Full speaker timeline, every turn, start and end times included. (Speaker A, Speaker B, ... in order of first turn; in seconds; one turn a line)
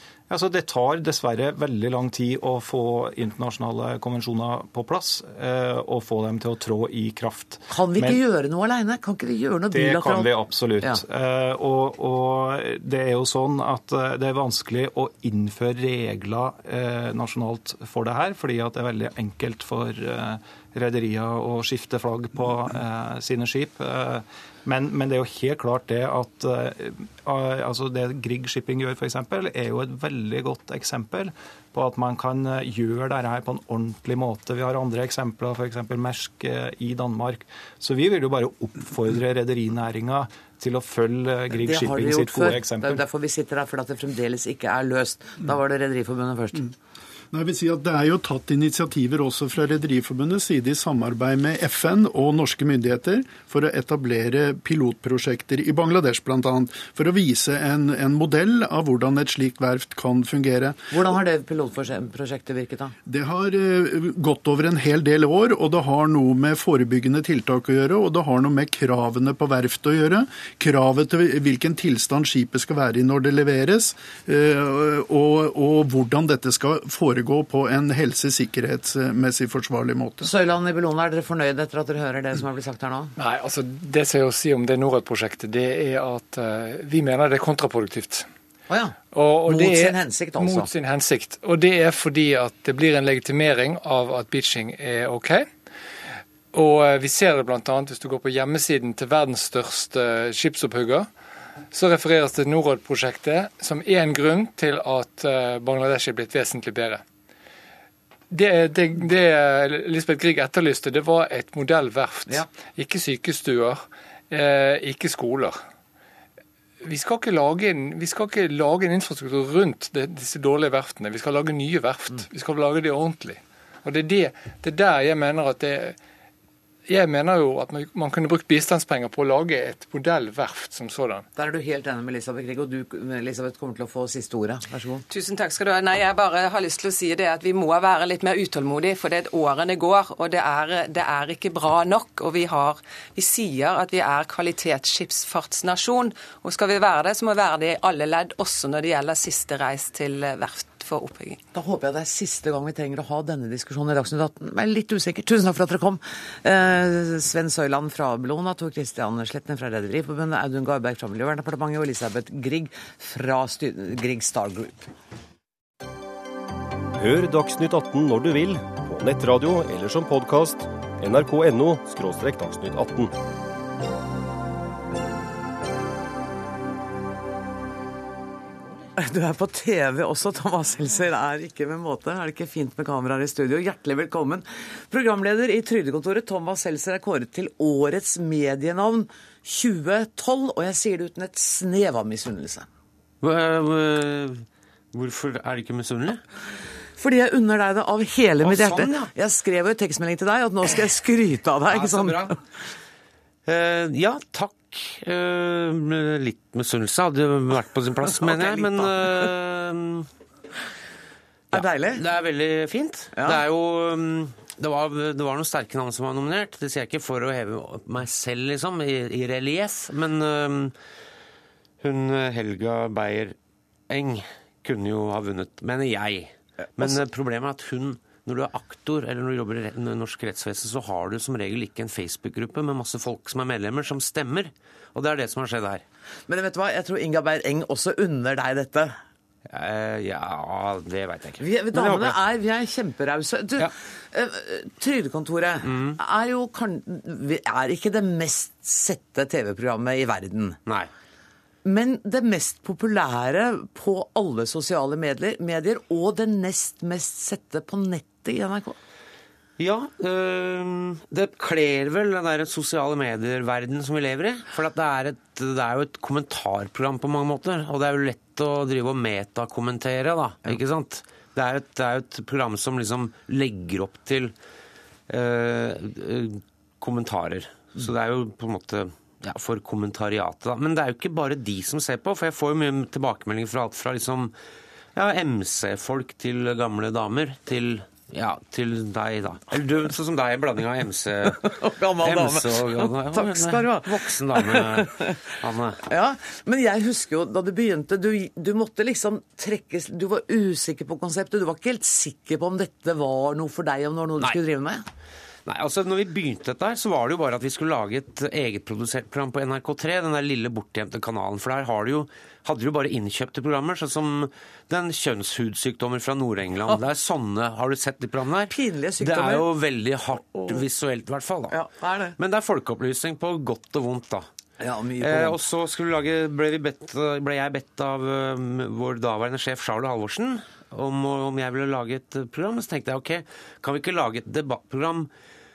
Speaker A: 0.3-8.2
Speaker B: 7.7-10.3
Speaker A: 9.7-43.0
Speaker B: 41.6-46.7
Speaker C: 47.3-60.8
Speaker B: 60.9-62.9
Speaker C: 63.0-80.3
Speaker B: 80.2-83.1
Speaker D: 83.2-88.3
Speaker B: 88.7-90.7
Speaker D: 89.1-95.5
Speaker D: 96.5-101.1
Speaker D: 101.7-107.0
Speaker D: 108.3-115.6
Speaker D: 116.8-126.0
Speaker D: 126.9-131.2
Speaker B: 131.3-135.0
Speaker E: 135.1-151.4
Speaker B: 151.5-164.9
Speaker F: 167.0-173.1
Speaker B: 179.0-192.7
Speaker G: 193.2-196.2
Speaker B: 197.0-202.4
Speaker G: 198.4-199.1
Speaker G: 201.7-202.3
Speaker G: 203.4-210.1
Speaker B: 208.1-209.3
Speaker B: 211.5-212.0
Speaker G: 211.5-220.8
Speaker B: 213.1-213.4
Speaker G: 221.8-223.3
Speaker G: 223.9-235.8
Speaker B: 236.3-239.0
Speaker G: 239.5-242.2
Speaker B: 241.4-250.6
Speaker G: 245.6-246.0
Speaker B: 251.6-258.8
Speaker G: 259.6-274.3
Speaker G: 275.1-284.3
Speaker G: 284.9-295.8
Speaker B: 291.4-295.2
Speaker B: 295.8-304.9
Speaker G: 305.4-321.6
Speaker B: 318.5-319.4
Speaker B: 321.5-322.2
Speaker G: 322.2-324.3
Speaker B: 324.6-325.4
Speaker G: 325.0-335.1